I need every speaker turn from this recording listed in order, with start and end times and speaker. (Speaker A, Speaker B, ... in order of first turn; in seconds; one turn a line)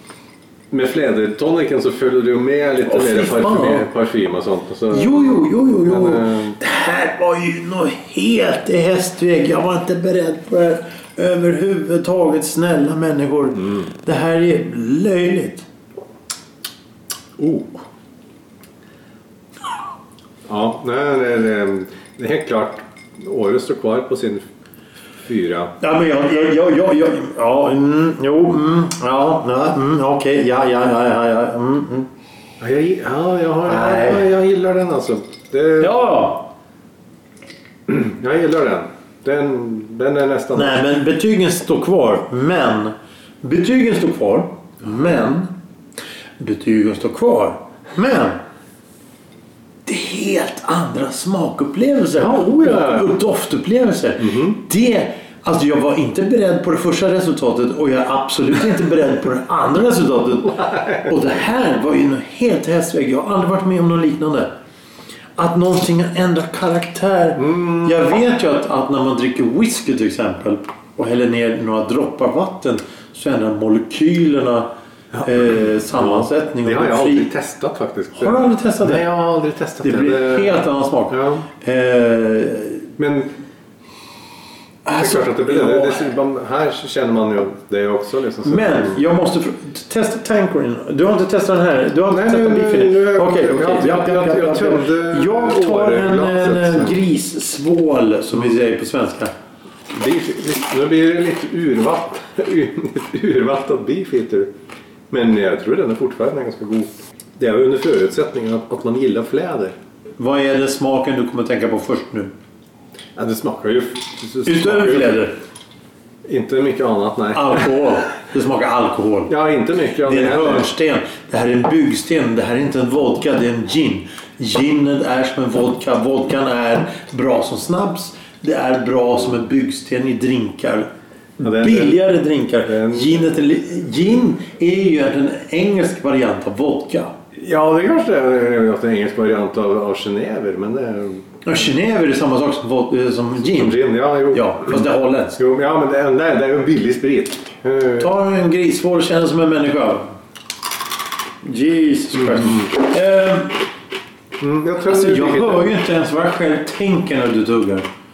Speaker A: 0.7-6.6
Speaker B: 2.9-3.9
Speaker B: 4.9-15.7
Speaker A: 17.4-17.8
Speaker A: 20.5-24.4
Speaker A: 25.2-25.7
Speaker B: 25.8-32.1
Speaker A: 32.6-36.0
Speaker B: 33.6-34.3
Speaker B: 35.8-36.5
Speaker A: 37.9-40.8
Speaker B: 40.5-45.5
Speaker B: 46.4-48.4
Speaker B: 49.9-64.5
Speaker A: 52.1-53.1
Speaker A: 54.2-54.6
Speaker A: 60.6-61.1
Speaker B: 65.4-74.7
Speaker A: 67.4-68.0
Speaker B: 75.2-77.3
Speaker A: 75.9-80.6
Speaker B: 78.1-79.1
Speaker B: 79.8-82.9
Speaker A: 81.1-81.4
Speaker A: 83.0-83.3
Speaker B: 84.8-86.0
Speaker A: 85.0-89.0
Speaker B: 88.4-99.3
Speaker A: 92.1-97.0
Speaker A: 99.9-104.5
Speaker A: 105.1-109.7
Speaker B: 110.2-112.3
Speaker A: 113.2-115.2
Speaker B: 114.4-115.3
Speaker A: 116.2-117.7
Speaker B: 117.3-119.3
Speaker A: 119.3-120.7
Speaker B: 120.0-137.1
Speaker A: 131.4-132.0
Speaker A: 132.6-133.3
Speaker A: 137.3-141.3
Speaker B: 141.4-145.4
Speaker A: 143.4-144.8
Speaker A: 145.4-148.1
Speaker B: 148.0-150.1
Speaker B: 151.4-153.6
Speaker A: 154.4-155.7
Speaker B: 154.8-157.8